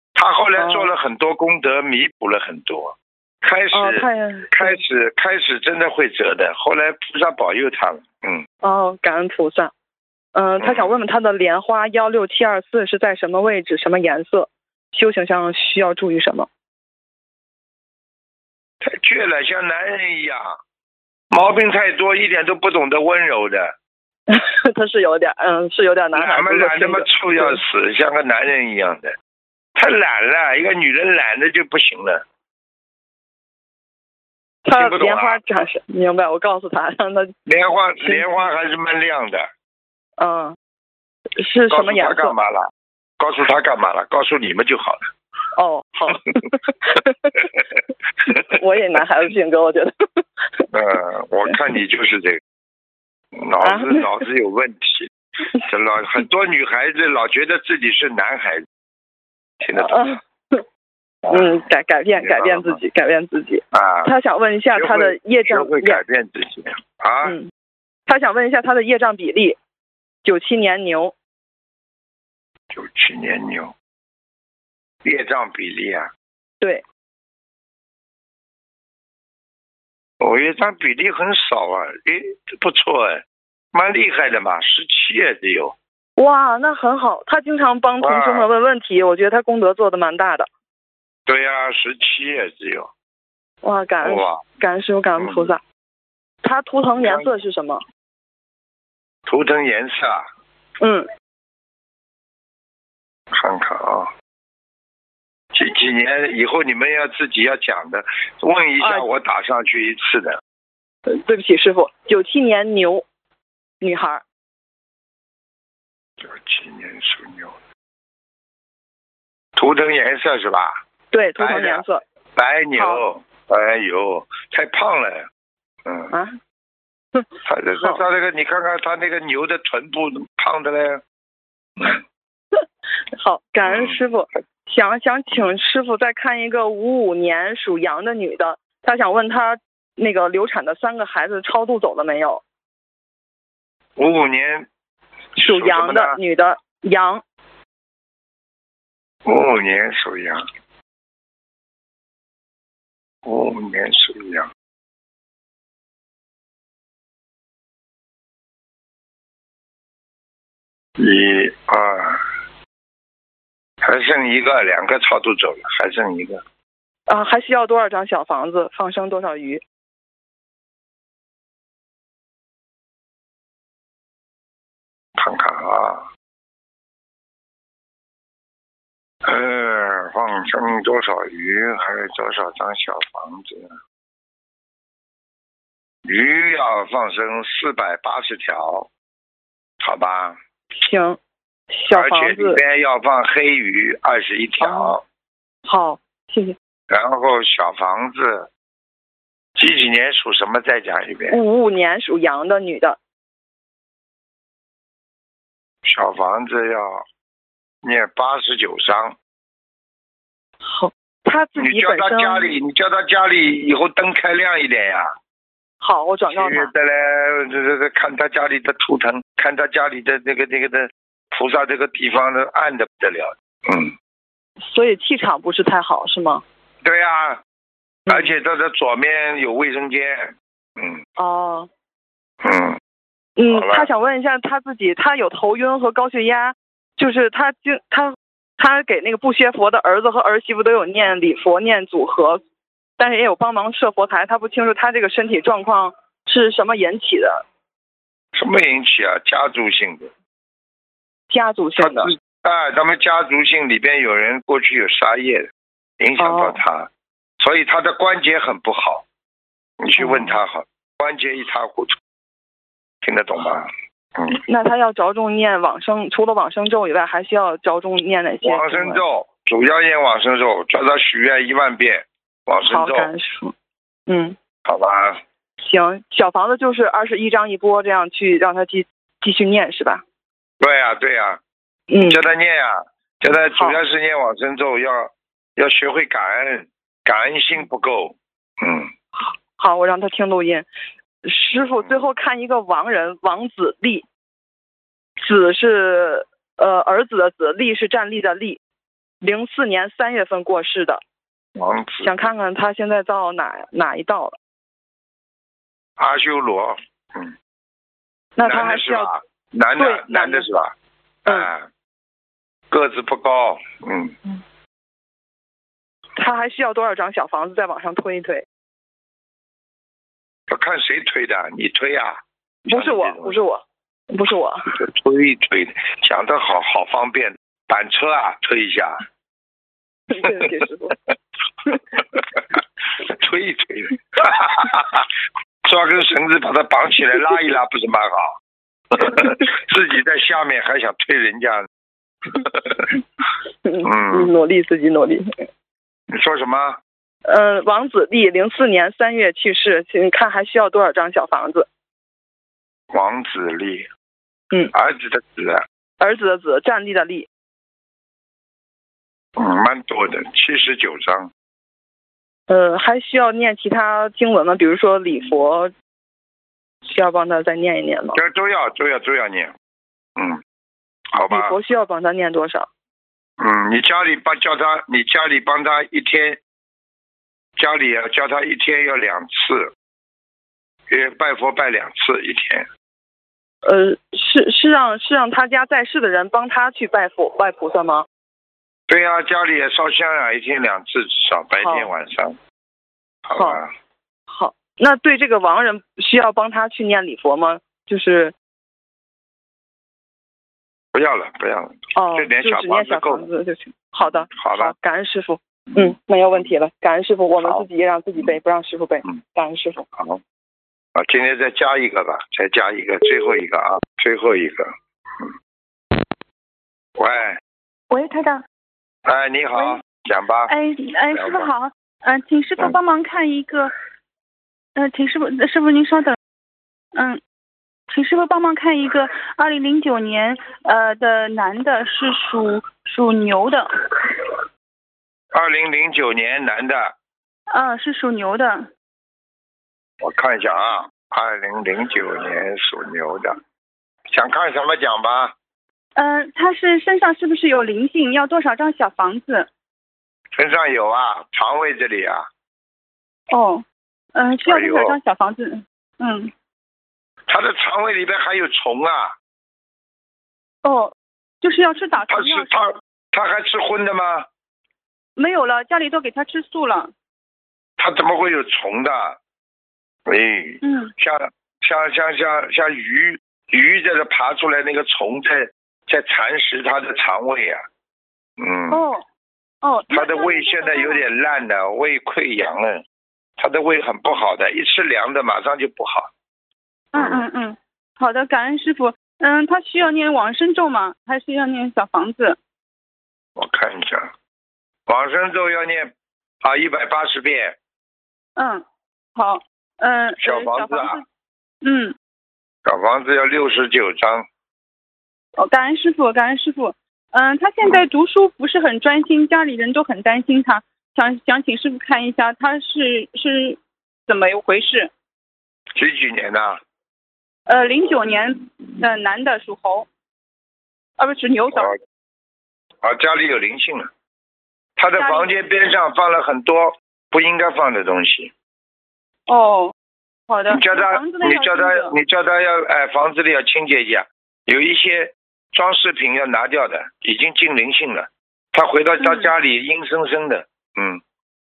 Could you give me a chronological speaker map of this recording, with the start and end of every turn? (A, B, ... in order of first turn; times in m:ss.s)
0:00.2-0:08.4 A
0:00.6-0:00.9 B
0:03.7-0:04.8 B
0:08.6-0:09.7 B
0:10.4-0:16.5 B
0:10.6-0:10.9 A
0:18.8-0:20.6 A
0:21.3-0:23.8 A
0:24.3-0:27.6 B
0:26.1-0:29.1 A
0:29.8-0:32.2 A
0:34.6-0:37.4 B
0:34.8-0:35.4 A
0:37.4-0:39.5 A
0:38.0-0:38.3 B
0:40.2-0:40.6 B
0:41.4-0:42.4 B
0:41.7-0:45.1 A
0:45.6-0:47.5 B
0:48.3-0:50.7 B
0:50.7-0:52.4 A
0:53.4-0:55.1 A
0:53.6-0:54.2 B
0:55.6-0:58.7 A
0:59.6-1:00.2 A
0:59.6-1:00.6 B
1:01.2-1:06.0 B
1:02.2-1:02.8 A
1:03.7-1:04.1 A
1:04.7-1:07.4 A
1:07.2-1:07.5 B
1:08.1-1:09.6 B
1:10.2-1:11.1 B
1:12.7-1:13.7 A
1:15.0-1:16.1 A
1:20.2-1:25.8 A
1:26.2-1:30.5 B
1:28.0-1:28.5 A
1:31.3-1:32.9 A
1:33.6-1:35.6 B
1:34.0-1:34.4 A
1:35.2-1:35.5 A
1:36.4-1:37.8 B
1:37.0-1:37.3 A
1:39.3-1:40.3 A
1:40.8-1:41.1 B
1:43.3-1:44.1 A
1:45.5-1:50.4 A
1:48.8-1:49.1 B
1:51.1-1:53.0 B
1:53.8-1:54.2 B
1:56.2-1:57.6 A
1:59.6-2:00.7 A
2:01.1-2:02.0 B
2:01.4-2:01.8 A
2:02.4-2:05.3 A
2:02.8-2:03.0 B
2:05.8-2:06.1 A
2:06.1-2:06.4 B
2:07.4-2:11.0 A
2:13.2-2:22.4 B
2:13.6-2:14.0 A
2:24.0-2:24.7 A
2:25.4-2:26.2 A
2:25.4-2:27.2 B
2:29.2-2:30.4 A
2:33.2-2:34.5 A
2:41.0-2:42.2 A
2:43.8-2:46.4 A
2:47.1-2:49.6 B
2:55.2-2:56.1 A
2:59.2-3:03.8 A
3:06.0-3:08.9 A
3:09.8-3:10.4 A
3:10.8-3:11.2 B
3:11.7-3:12.6 B
3:11.9-3:15.0 A
3:14.6-3:15.0 B
3:15.6-3:16.6 B
3:16.9-3:18.5 A
3:19.6-3:21.4 A
3:21.3-3:23.0 B
3:25.8-3:27.0 A
3:27.8-3:29.1 A
3:30.6-3:32.5 B
3:31.6-3:35.1 A
3:35.8-3:36.7 B
3:36.3-3:43.9 A
3:44.6-3:46.4 B
3:46.8-3:47.4 A
3:48.1-3:51.0 A
3:51.2-3:51.7 B
3:52.4-3:52.8 A
3:53.4-4:02.4 B
3:53.5-3:53.9 A
4:03.0-4:07.4 B
4:08.4-4:10.1 A
4:11.3-4:12.1 B
4:11.8-4:15.5 A
4:16.0-4:16.9 A
4:16.2-4:16.6 B
4:17.4-4:19.0 A
4:19.8-4:22.0 A
4:20.0-4:20.4 B
4:23.0-4:24.4 A
4:24.5-4:29.0 B
4:28.4-4:33.1 A
4:32.7-4:33.5 B
4:34.1-4:34.4 B
4:34.6-4:35.2 A
4:35.6-4:40.0 B
4:40.6-4:41.4 A
4:41.9-4:42.2 B
4:42.0-4:48.9 A
4:43.5-4:43.8 B
4:49.2-4:50.7 B
4:51.2-4:54.1 B
4:51.8-4:52.1 A
4:55.2-4:58.6 B
4:59.2-5:01.0 B
5:01.6-5:02.2 A
5:02.0-5:04.4 B
5:06.0-5:07.4 A
5:08.4-5:09.1 B
5:08.4-5:10.7 A
5:09.8-5:10.5 B
5:11.2-5:11.5 B
5:11.3-5:11.7 A
5:12.7-5:14.2 A
5:16.2-5:18.4 B
5:20.5-5:23.4 A
5:22.7-5:24.8 B
5:24.7-5:29.0 A
5:30.1-5:31.0 B
5:30.2-5:30.5 A
5:31.7-5:35.1 A
5:35.6-5:38.4 A
5:38.9-5:41.7 A
5:42.3-5:42.9 A
5:43.6-5:45.3 B
5:43.8-5:44.3 A
5:46.1-5:46.8 A
5:47.3-5:51.7 B
5:52.9-5:53.9 A
5:54.7-5:55.6 A
5:56.0-5:57.3 B
5:59.4-6:01.3 A
6:02.5-6:05.7 B
6:06.8-6:08.2 B
6:08.1-6:09.5 A
6:11.1-6:11.6 A
6:11.3-6:12.7 B
6:13.4-6:16.4 A
6:17.6-6:19.7 A
6:20.9-6:22.7 A
6:23.6-6:28.1 B
6:28.9-6:32.4 A
6:31.6-6:31.9 B
6:33.3-6:33.7 A
6:33.4-6:33.6 B
6:34.3-6:38.3 B
6:40.9-6:43.3 A
6:41.9-6:49.9 B
6:44.3-6:44.8 A
6:45.7-6:46.5 A
6:47.4-6:47.6 A
6:50.9-6:55.3 A
6:57.0-6:57.4 A
6:57.9-6:58.4 C
6:59.0-7:00.5 A
6:59.6-6:59.8 C
7:00.5-7:03.7 C
7:01.1-7:01.5 A
7:04.8-7:06.2 C
7:06.9-7:07.2 C
7:07.9-7:13.9 C
7:15.3-7:16.9 A
7:17.5-7:18.7 C
7:20.0-7:23.4 A
7:24.1-7:25.4 A
7:26.0-7:29.5 C
7:30.4-7:32.3 A
7:33.3-7:36.3 C
7:34.4-7:35.0 A
7:37.3-7:39.1 A
7:40.6-7:42.5 C
7:42.0-7:44.3 A
7:45.2-7:46.9 C
7:47.8-7:49.2 A
7:50.1-7:57.6 A
7:50.6-7:50.9 C
7:58.4-7:58.9 A
7:58.7-7:59.0 C
7:59.6-8:01.0 C
7:59.9-8:02.8 A
8:03.4-8:06.1 A
8:06.9-8:12.4 C
8:06.9-8:07.3 A
8:13.4-8:14.1 A
8:14.9-8:17.6 A
8:18.4-8:18.6 C
8:19.2-8:21.0 C
8:20.2-8:21.0 A
8:21.6-8:21.9 C
8:22.6-8:24.3 A
8:25.4-8:34.9 C
8:35.8-8:36.6 A
8:37.5-8:39.9 C
8:41.0-8:41.8 C
8:42.8-8:43.9 A
8:44.8-8:48.3 A
8:45.0-8:45.3 C
8:49.3-8:49.7 C
8:50.3-8:51.9 C
8:50.5-9:01.0 A
8:59.0-8:59.3 C